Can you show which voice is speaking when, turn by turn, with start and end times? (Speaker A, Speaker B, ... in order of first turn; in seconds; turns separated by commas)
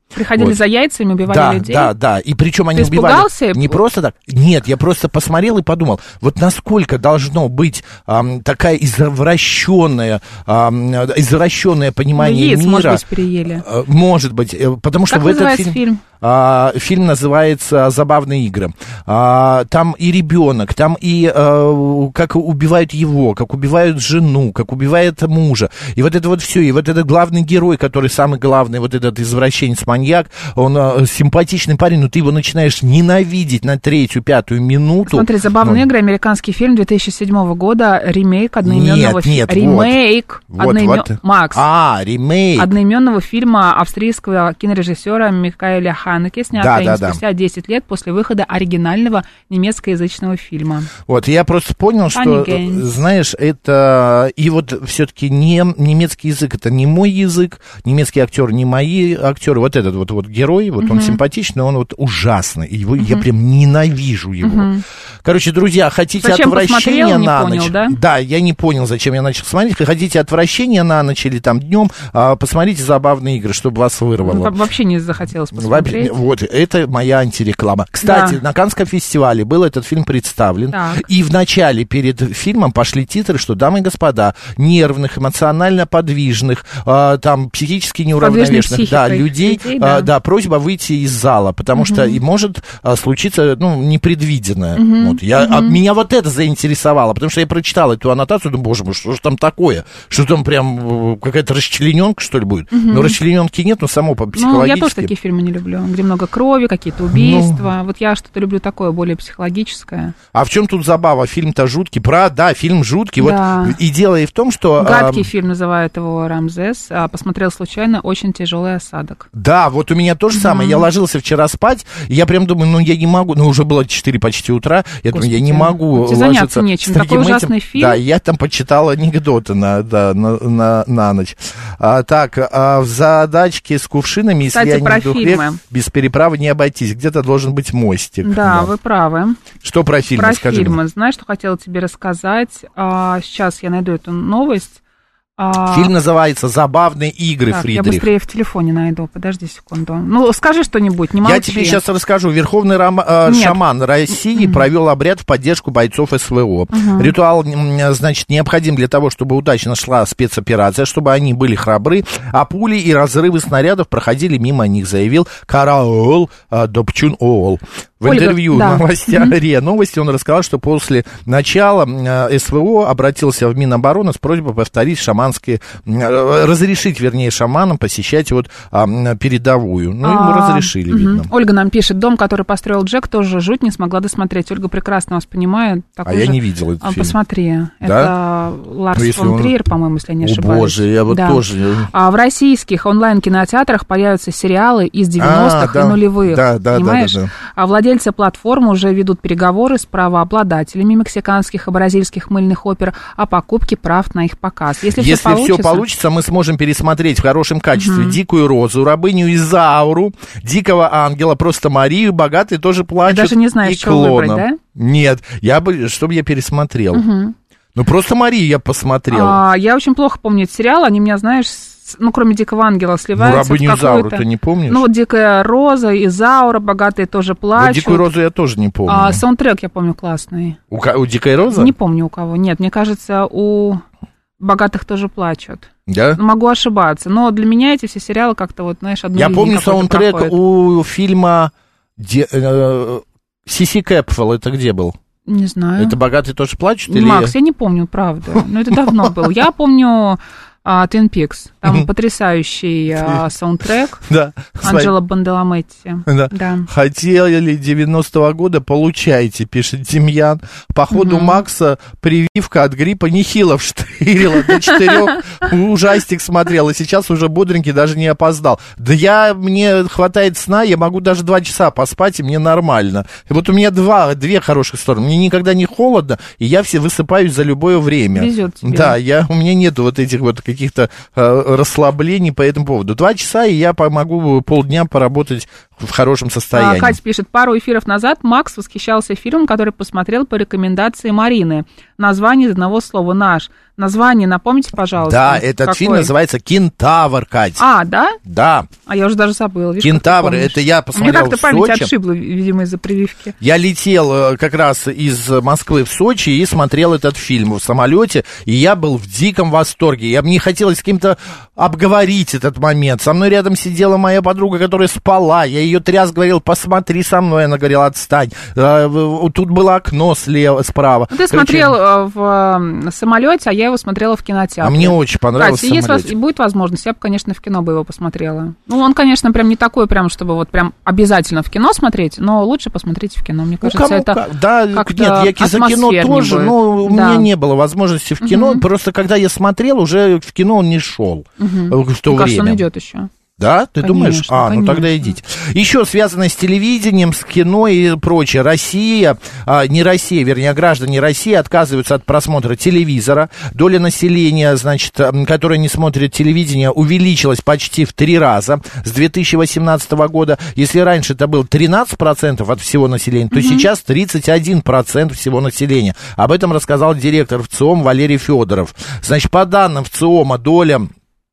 Speaker A: 0.1-1.9, Speaker B: 1.2-35.8, Speaker A: 2.8-3.8, Speaker A: 12.2-13.6, Speaker A: 15.1-16.0, Speaker A: 35.0-41.6, Speaker B: 38.6-40.0, Speaker B: 40.5-42.7, Speaker A: 42.6-50.9, Speaker B: 46.5-47.2, Speaker B: 51.1-64.7, Speaker A: 52.1-52.9, Speaker A: 60.8-61.2, Speaker A: 64.4-64.8, Speaker B: 65.2-74.5, Speaker A: 66.2-68.0, Speaker A: 74.2-76.1, Speaker B: 75.5-105.1, Speaker A: 78.0-78.4, Speaker A: 80.7-81.0, Speaker A: 88.2-90.1, Speaker A: 91.8-92.2, Speaker A: 94.8-95.8, Speaker A: 102.7-103.2, Speaker A: 104.3-110.1, Speaker B: 107.1-107.6, Speaker B: 110.3-115.3, Speaker A: 113.2-113.8, Speaker A: 114.8-119.3, Speaker B: 119.3-138.7, Speaker A: 120.3-120.8, Speaker A: 125.1-128.0, Speaker A: 134.5-135.6, Speaker A: 138.2-139.4, Speaker B: 139.6-140.8, Speaker A: 140.1-144.8, Speaker A: 145.4-145.9, Speaker B: 145.7-148.1, Speaker A: 147.5-151.8, Speaker B: 151.2-181.3, Speaker A: 153.2-153.6, Speaker A: 154.3-154.6, Speaker A: 156.7-157.1, Speaker A: 168.0-169.3, Speaker A: 180.0-205.8, Speaker B: 186.0-187.2, Speaker B: 187.8-188.1, Speaker B: 188.9-189.5, Speaker B: 190.2-191.9, Speaker B: 195.2-197.3, Speaker B: 204.9-217.0, Speaker A: 207.8-208.2, Speaker A: 213.0-214.6, Speaker A: 216.9-217.3, Speaker B: 217.8-219.4, Speaker A: 219.1-228.1, Speaker B: 223.2-224.8, Speaker B: 227.6-229.2, Speaker A: 228.9-230.6, Speaker B: 230.7-231.7, Speaker A: 231.5-233.8, Speaker A: 234.4-240.3, Speaker B: 235.9-236.2, Speaker B: 239.1-244.9, Speaker A: 245.3-246.0, Speaker B: 245.8-247.3, Speaker A: 246.9-254.0, Speaker B: 248.3-249.1, Speaker B: 254.1-254.9, Speaker A: 254.6-256.7, Speaker B: 256.1-287.0, Speaker A: 260.9-261.4, Speaker A: 278.1-278.9, Speaker A: 286.5-296.1, Speaker B: 295.0-297.6, Speaker A: 297.6-298.2, Speaker B: 298.2-298.7, Speaker A: 298.9-303.3, Speaker B: 299.8-301.9, Speaker B: 303.4-321.8, Speaker A: 321.1-334.2, Speaker B: 324.6-326.1, Speaker B: 333.6-342.6, Speaker A: 334.7-337.3, Speaker A: 338.2-338.6, Speaker A: 341.4-343.1, Speaker B: 343.4-370.9, Speaker A: 343.8-345.1, Speaker A: 363.3-363.6